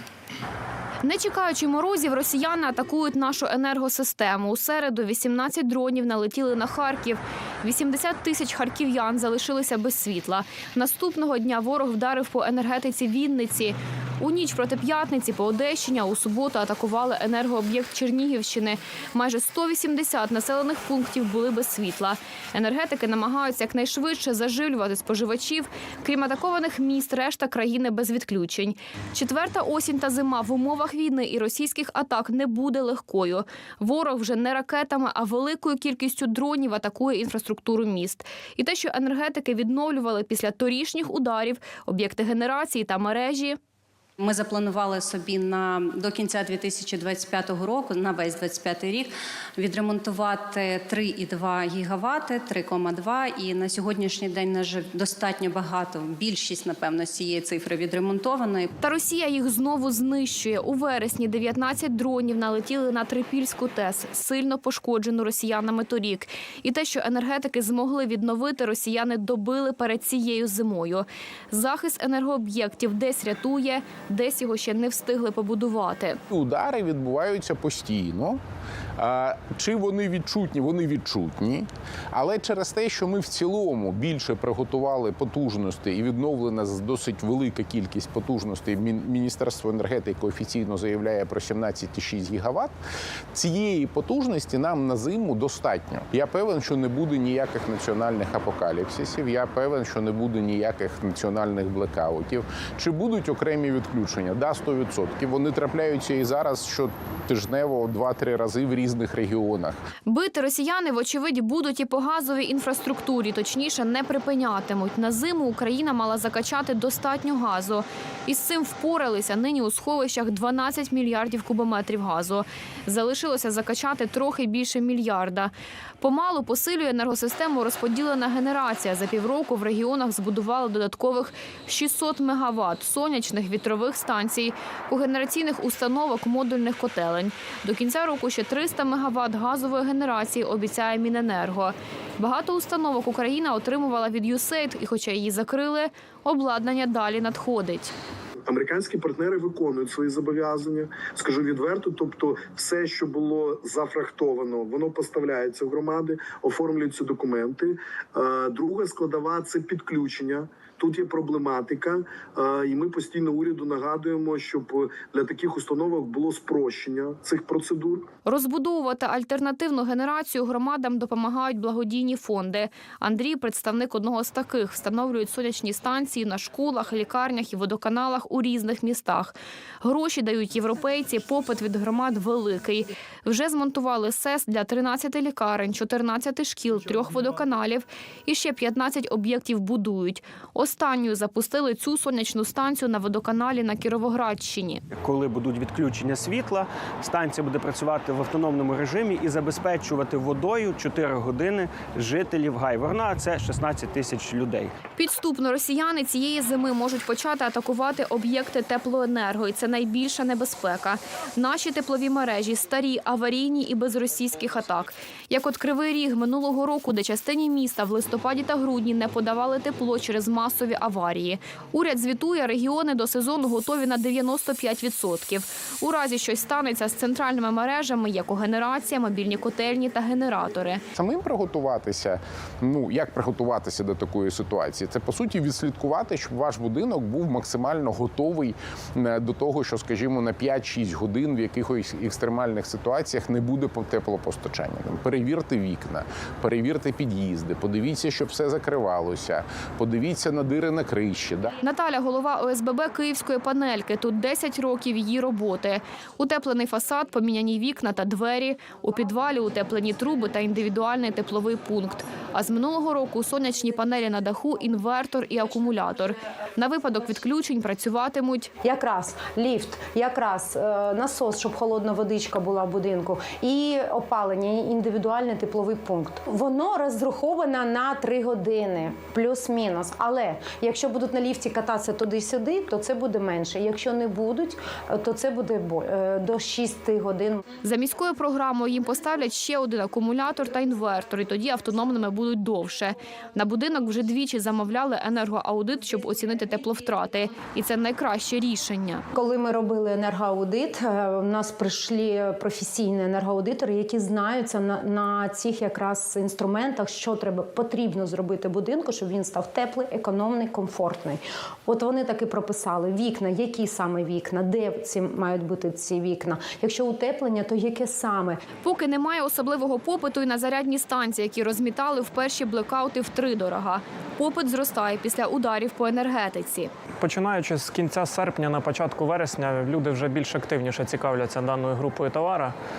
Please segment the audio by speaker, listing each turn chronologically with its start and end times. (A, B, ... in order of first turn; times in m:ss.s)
0:01.0-0:43.6 A
0:44.2-0:58.7 B
0:58.8-1:16.2 A
1:16.3-1:18.4 C
1:19.0-1:32.7 C
1:33.3-1:49.8 C
1:50.1-2:27.9 A
2:28.5-2:48.1 D
2:48.2-3:14.8 A
3:14.9-3:24.7 E
3:25.0-3:50.8 A
3:50.9-4:11.5 C
4:11.6-4:28.5 A
4:28.6-4:47.4 F
4:47.6-4:59.0 A
4:59.1-5:18.4 F
5:18.6-5:26.7 A
5:27.0-5:32.5 G